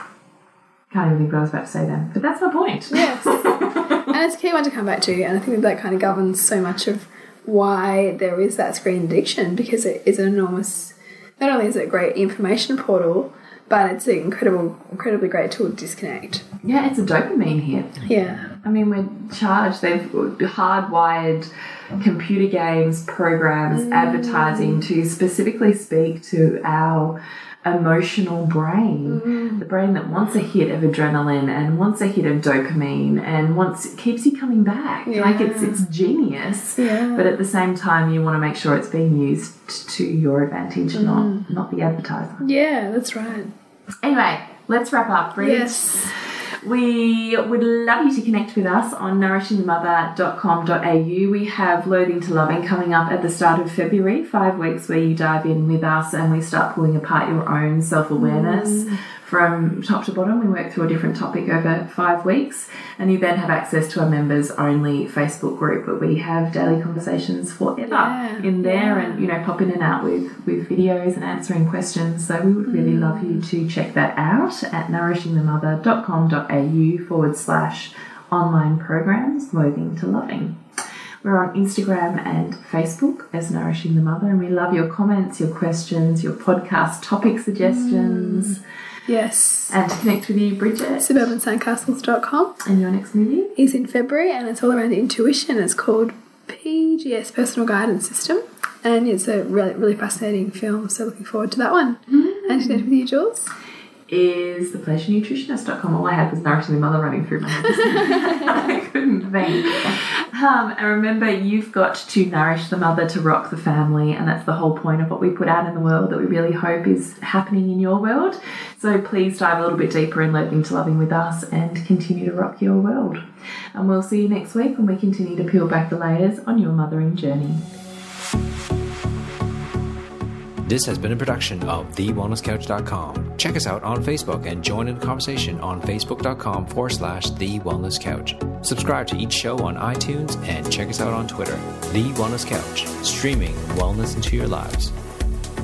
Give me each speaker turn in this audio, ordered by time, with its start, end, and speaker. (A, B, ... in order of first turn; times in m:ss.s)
0:00.9-0:04.1 A
0:02.9-0:16.4 B
0:16.6-0:42.4 A
0:18.0-0:18.5 B
0:23.7-0:24.8 B
0:29.0-0:29.6 B
0:35.1-0:35.8 B
0:36.8-0:37.4 B
0:40.9-0:41.5 B
0:42.4-0:43.5 B
0:44.0-1:20.6 A
0:45.4-0:46.1 B
0:58.2-0:59.0 B
1:07.8-1:09.2 B
1:12.6-1:13.4 B
1:21.2-1:28.6 A
1:27.6-1:29.8 B
1:29.7-1:31.3 A
1:31.0-1:32.6 B
1:32.6-1:33.5 A
1:33.6-1:43.5 B
1:42.1-1:42.8 A
1:44.1-2:03.2 A
1:47.8-1:48.5 B
2:03.7-2:07.6 A
2:10.6-2:24.9 C